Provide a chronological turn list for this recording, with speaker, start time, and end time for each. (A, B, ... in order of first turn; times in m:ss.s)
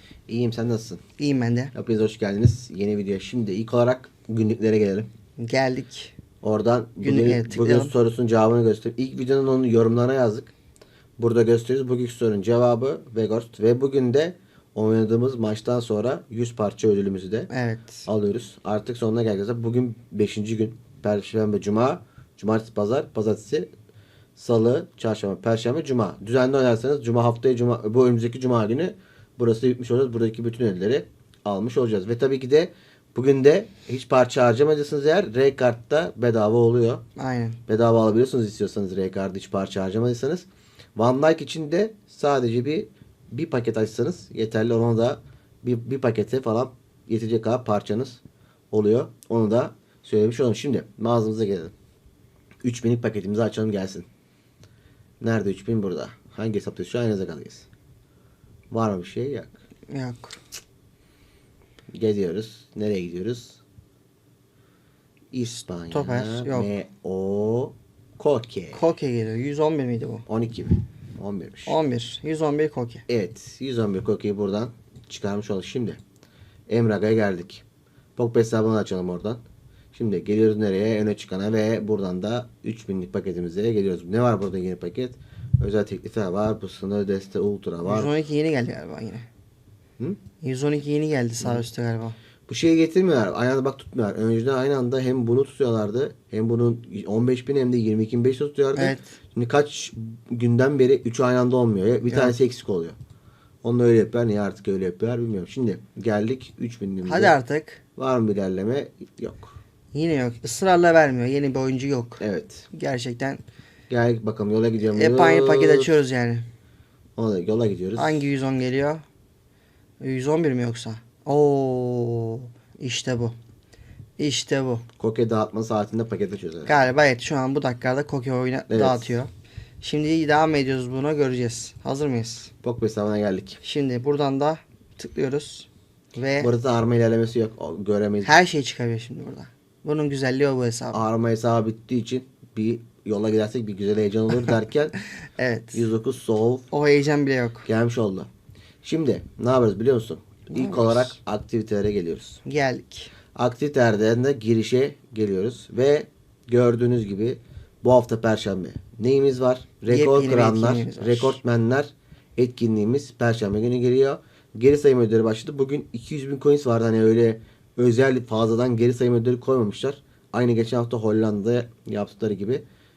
0:00.3-0:01.0 A
0:01.2-0:01.7 B
0:01.7-0:05.1 A
0:05.4-0:06.1 B
0:06.4-0:10.5 A
0:07.0-0:07.9 B
0:11.2-0:17.5 A
0:17.5-0:18.0 B
0:18.1-0:23.7 A
0:24.4-0:37.0 A
0:37.2-0:37.6 B
0:37.7-0:48.2 A
0:48.7-0:51.7 A
0:52.6-0:54.1 A
0:55.2-0:57.7 A
0:58.7-0:59.6 A
0:59.9-1:00.4 B
1:01.9-1:03.6 A
1:05.3-1:08.8 A
1:05.5-1:06.7 B
1:08.7-1:10.2 B
1:10.3-1:11.8 A
1:11.7-1:13.0 B
1:13.1-1:16.0 A
1:16.7-1:17.6 A
1:18.2-1:19.4 A
1:19.9-1:28.1 A
1:27.8-1:29.3 B
1:30.4-1:32.2 B
1:32.5-1:43.0 A
1:38.8-1:39.0 B
1:42.1-1:42.4 B
1:43.6-1:47.4 A
1:47.0-1:47.8 B
1:48.0-1:49.6 A
1:49.9-1:53.4 B
1:52.2-1:52.7 A
1:53.9-1:56.0 A
1:54.9-1:56.4 B
1:57.2-1:58.3 A
1:58.0-1:59.0 B
2:00.0-2:03.4 B
2:04.2-2:04.8 B
2:05.0-2:06.8 A
2:06.7-2:09.3 B
2:08.7-2:09.1 A
2:09.8-2:12.5 B
2:12.6-2:13.6 A
2:13.6-2:16.5 B
2:16.4-2:18.4 A
2:18.2-2:21.0 B
2:20.9-2:24.9 A
2:25.4-2:25.8 B
2:25.7-2:26.7 A
2:26.7-2:27.7 B
2:27.6-2:28.3 A
2:28.8-2:32.4 A
2:30.5-2:31.2 B
2:32.4-2:33.1 B
2:33.4-2:52.6 A
2:39.9-2:41.4 B